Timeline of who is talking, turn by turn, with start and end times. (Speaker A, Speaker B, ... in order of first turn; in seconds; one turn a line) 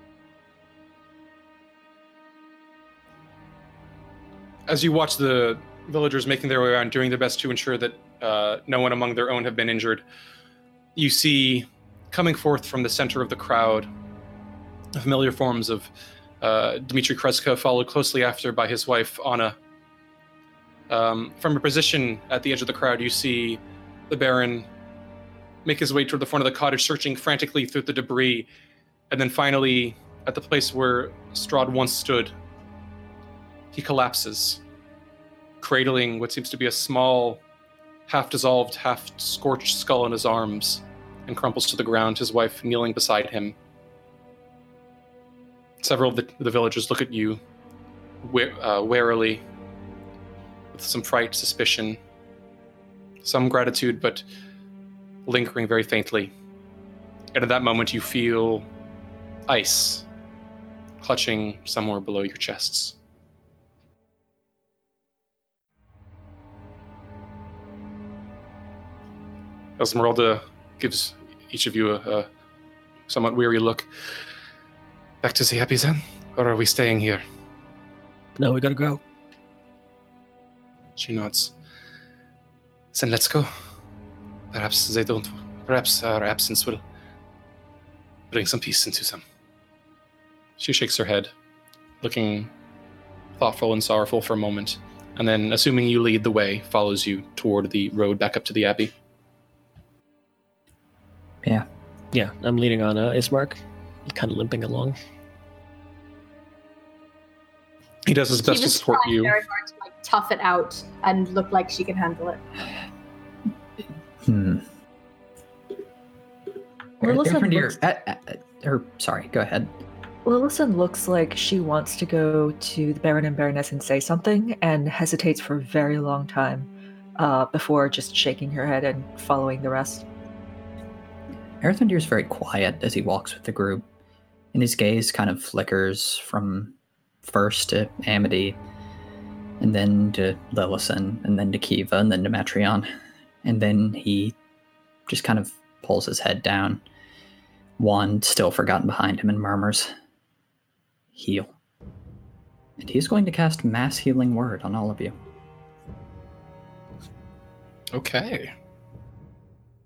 Speaker A: 4.7-10.0
Speaker A: 10.9-13.9
Speaker A: 14.9-15.9
Speaker A: 16.4-19.6
Speaker A: 20.9-24.7
Speaker A: 25.6-28.5
Speaker A: 29.1-32.3
Speaker A: 33.7-34.6
Speaker A: 35.6-37.4
Speaker A: 38.1-43.5
Speaker A: 45.8-47.4
Speaker A: 48.2-49.4
Speaker A: 50.7-52.0
Speaker A: 53.2-54.2
Speaker A: 55.2-56.3
Speaker A: 57.3-58.7
Speaker A: 59.5-60.0
Speaker A: 61.0-63.0
Speaker A: 69.8-72.3
Speaker A: 73.1-73.9
Speaker A: 75.2-77.2
Speaker B: 78.4-79.0
Speaker A: 81.0-81.5
Speaker A: 82.9-83.5
Speaker A: 84.5-86.8
Speaker A: 88.3-89.2
Speaker A: 90.6-91.3
Speaker A: 92.0-92.5
Speaker A: 93.4-98.9
Speaker B: 102.1-105.0
Speaker A: 108.0-109.4
Speaker C: 108.4-112.4
Speaker D: 114.2-114.7
Speaker E: 117.0-117.8
Speaker D: 117.0-119.8
Speaker E: 120.2-130.0
Speaker D: 131.6-133.8
Speaker D: 134.5-138.6
Speaker D: 139.6-142.9
Speaker D: 143.4-144.3
Speaker D: 145.1-146.8
Speaker D: 147.8-149.9
Speaker D: 151.1-151.6
Speaker D: 152.8-155.2
Speaker A: 157.9-158.5